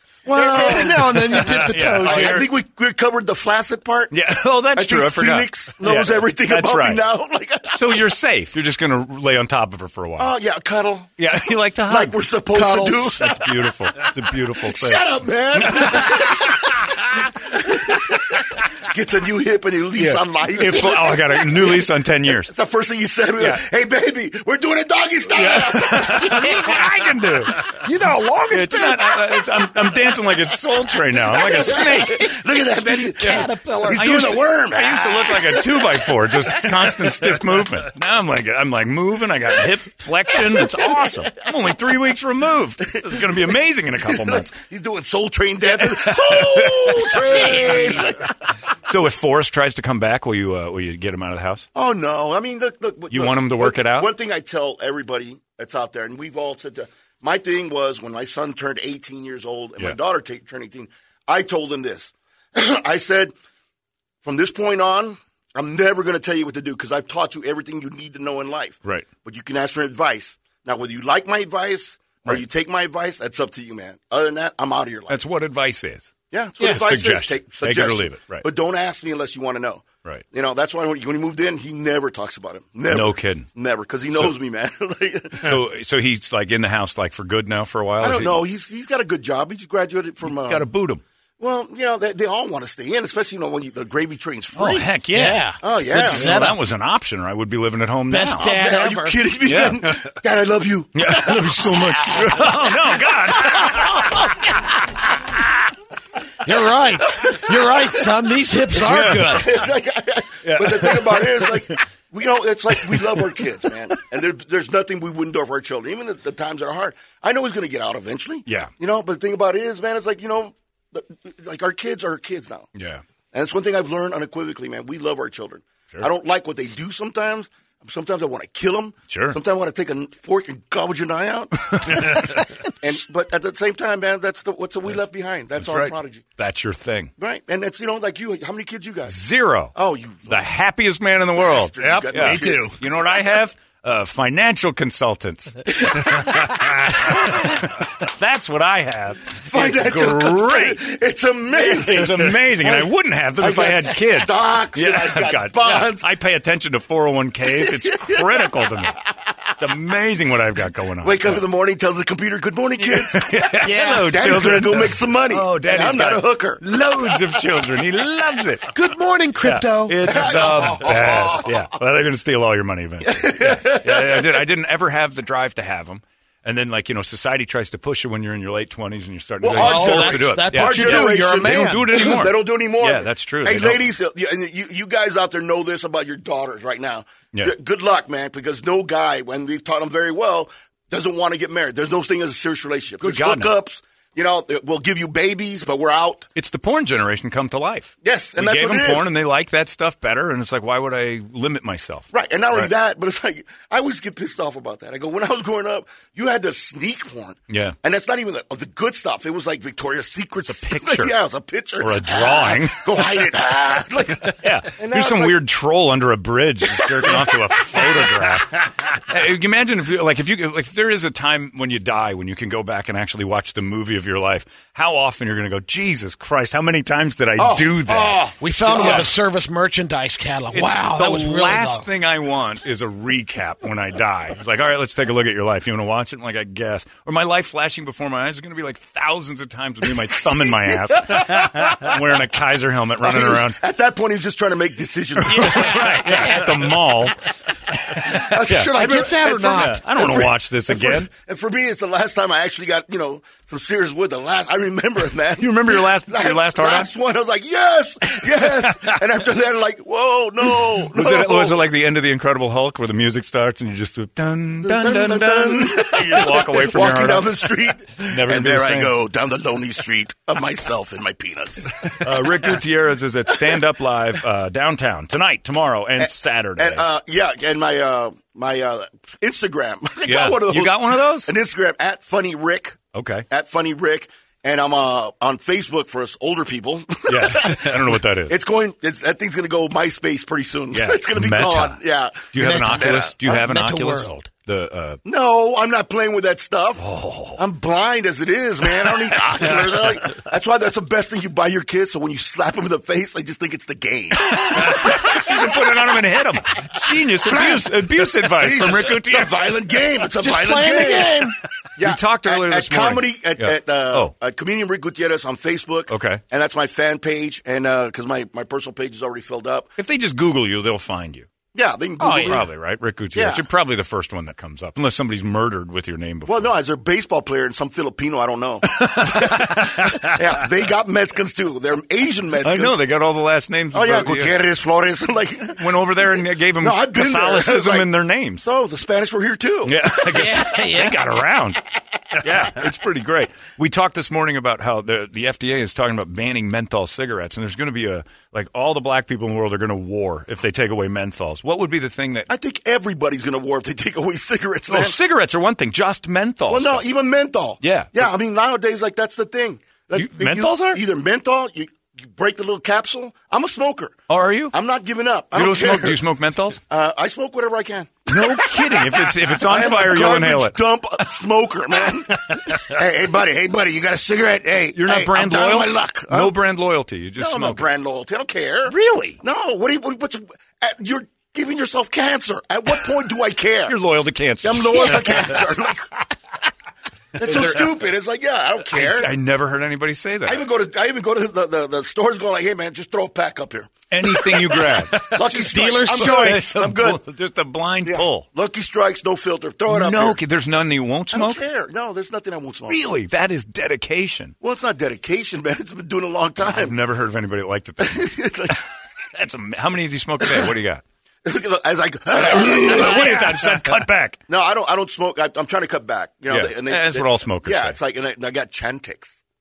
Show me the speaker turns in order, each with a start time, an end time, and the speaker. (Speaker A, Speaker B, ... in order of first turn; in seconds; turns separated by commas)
Speaker A: 0.2-4.2, Speaker B: 0.3-2.5, Speaker C: 1.3-2.5, Speaker C: 4.1-7.0, Speaker A: 4.7-8.1, Speaker C: 7.7-10.3, Speaker A: 10.2-13.7, Speaker C: 11.2-12.2, Speaker B: 12.5-13.2, Speaker C: 13.1-16.3, Speaker A: 14.6-26.8, Speaker C: 19.9-22.5, Speaker C: 23.4-23.6, Speaker C: 25.3-27.7, Speaker B: 26.2-26.7, Speaker B: 27.6-29.4, Speaker C: 28.5-32.3, Speaker A: 31.4-37.4, Speaker B: 32.8-34.2, Speaker C: 33.9-44.5, Speaker A: 42.9-43.2, Speaker A: 44.0-48.5, Speaker C: 45.7-48.0, Speaker C: 48.9-51.7, Speaker A: 51.7-63.3, Speaker C: 53.1-54.1, Speaker A: 64.2-75.2, Speaker C: 75.1-78.5, Speaker A: 76.3-85.6, Speaker C: 82.9-83.5, Speaker C: 85.4-88.4, Speaker A: 88.0-90.7, Speaker C: 90.2-91.0, Speaker A: 91.4-94.9, Speaker C: 94.5-98.5, Speaker B: 95.1-96.6, Speaker A: 95.6-96.3, Speaker B: 98.1-99.2, Speaker A: 98.4-102.7, Speaker C: 99.5-99.9, Speaker C: 101.0-104.2, Speaker B: 101.3-101.8, Speaker A: 103.4-103.8, Speaker B: 106.4-109.5, Speaker A: 107.2-107.5, Speaker C: 108.7-109.6, Speaker A: 109.3-122.7, Speaker C: 110.5-111.8, Speaker C: 112.7-113.4, Speaker C: 118.5-118.7, Speaker C: 122.8-123.0, Speaker A: 123.3-136.2, Speaker C: 129.1-129.4, Speaker C: 131.7-132.4, Speaker C: 135.6-137.1, Speaker A: 137.2-139.2, Speaker C: 139.1-139.7, Speaker A: 139.8-140.5, Speaker C: 140.3-150.8, Speaker A: 141.3-142.8, Speaker B: 141.8-142.8, Speaker A: 145.9-146.2, Speaker A: 147.1-147.4, Speaker A: 149.5-156.1, Speaker C: 151.5-158.9, Speaker A: 157.6-159.3, Speaker C: 159.6-161.4, Speaker A: 161.0-166.6, Speaker C: 162.8-168.7, Speaker B: 163.6-164.2, Speaker B: 168.7-170.7, Speaker C: 169.4-183.8, Speaker A: 170.1-171.5, Speaker A: 173.0-174.5, Speaker A: 179.4-196.2, Speaker B: 179.6-182.2, Speaker C: 193.0-193.5, Speaker C: 196.4-202.7, Speaker A: 198.0-199.1, Speaker A: 202.1-215.4, Speaker C: 207.5-207.8, Speaker C: 210.5-211.1, Speaker C: 211.8-213.2, Speaker C: 214.4-229.1, Speaker A: 217.0-217.3, Speaker A: 227.4-229.1, Speaker B: 228.3-231.8, Speaker C: 230.5-243.6, Speaker A: 240.3-241.6, Speaker A: 243.0-246.4, Speaker C: 245.3-247.2, Speaker B: 245.3-246.7, Speaker A: 248.1-261.7, Speaker C: 248.5-248.7, Speaker B: 248.5-249.8, Speaker C: 249.6-251.1, Speaker C: 255.4-256.9, Speaker C: 258.5-258.9, Speaker C: 260.9-269.0, Speaker A: 264.6-272.6, Speaker C: 272.0-276.8, Speaker A: 276.0-282.8, Speaker C: 280.0-281.3, Speaker C: 282.9-283.2, Speaker A: 283.3-293.3, Speaker C: 287.1-288.4, Speaker C: 290.7-291.8, Speaker C: 292.3-295.0, Speaker B: 292.4-294.3, Speaker A: 295.1-296.8, Speaker C: 296.8-297.4, Speaker A: 297.4-305.7, Speaker C: 304.2-309.4, Speaker A: 307.2-319.7, Speaker B: 310.2-311.4, Speaker C: 311.8-314.1, Speaker C: 315.9-316.2, Speaker C: 319.8-321.3, Speaker A: 321.6-322.5, Speaker B: 322.0-322.5, Speaker C: 322.2-326.5, Speaker A: 323.1-323.5, Speaker A: 326.3-332.8, Speaker C: 328.7-330.2, Speaker C: 332.4-334.4, Speaker A: 333.7-337.9, Speaker C: 335.6-338.4, Speaker A: 338.4-340.6, Speaker C: 339.6-341.6, Speaker B: 340.1-341.1, Speaker C: 342.2-352.3, Speaker A: 352.3-355.0, Speaker C: 354.7-356.9, Speaker A: 356.5-366.0, Speaker C: 357.6-358.1, Speaker C: 359.9-360.8, Speaker C: 364.1-364.5, Speaker C: 365.3-366.6, Speaker A: 366.6-376.4, Speaker C: 368.1-370.6, Speaker C: 372.3-372.6, Speaker C: 374.8-377.7, Speaker A: 377.2-383.8, Speaker C: 378.7-379.2, Speaker C: 383.7-385.5, Speaker A: 384.4-385.9, Speaker A: 387.2-389.1, Speaker C: 387.2-387.8, Speaker C: 388.7-390.5, Speaker A: 390.3-397.0, Speaker C: 393.9-398.3, Speaker B: 395.0-396.5, Speaker A: 397.8-400.2, Speaker C: 399.7-401.4, Speaker A: 401.1-402.8, Speaker C: 402.7-404.4, Speaker A: 404.4-406.7, Speaker C: 406.4-408.1, Speaker A: 407.8-408.6, Speaker C: 409.1-410.8, Speaker A: 411.2-419.2, Speaker C: 412.1-414.2, Speaker C: 416.3-417.8